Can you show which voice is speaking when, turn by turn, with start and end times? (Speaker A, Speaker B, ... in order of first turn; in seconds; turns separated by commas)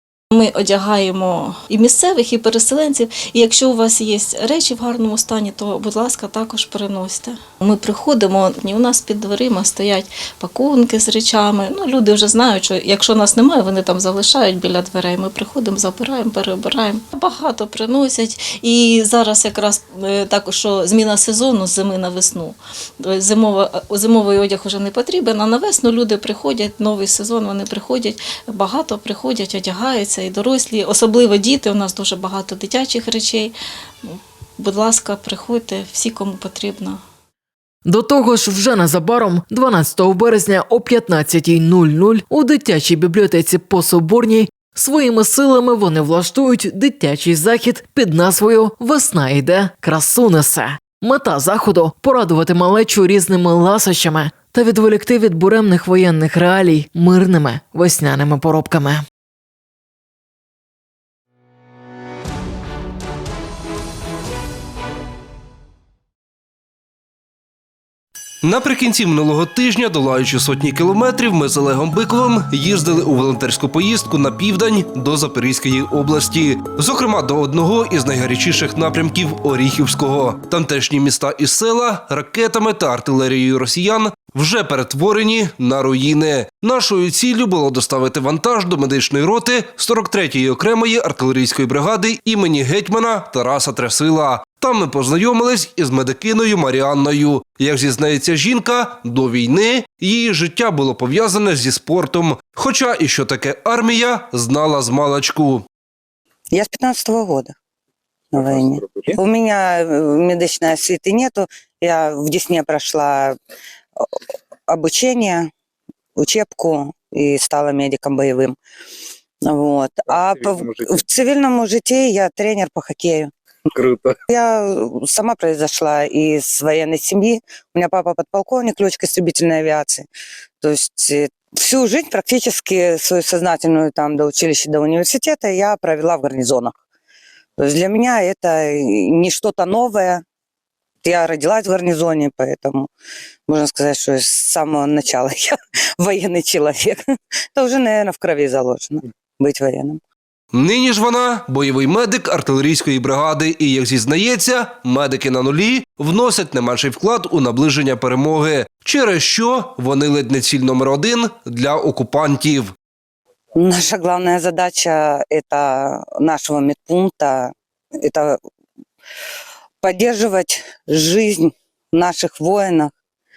Speaker A: 0.3-37.0, Speaker B: 37.9-59.0, Speaker C: 68.4-105.7, Speaker D: 106.5-107.6, Speaker E: 108.3-109.2, Speaker D: 108.4-113.4, Speaker D: 114.7-115.5, Speaker D: 116.2-118.6, Speaker D: 119.5-123.3, Speaker E: 120.1-121.0, Speaker E: 123.7-124.2, Speaker D: 124.3-130.1, Speaker D: 130.6-136.8, Speaker D: 137.6-140.2, Speaker D: 141.0-142.9, Speaker D: 143.5-147.0, Speaker D: 147.6-150.0, Speaker C: 150.5-162.7, Speaker D: 163.6-168.4, Speaker D: 169.8-172.9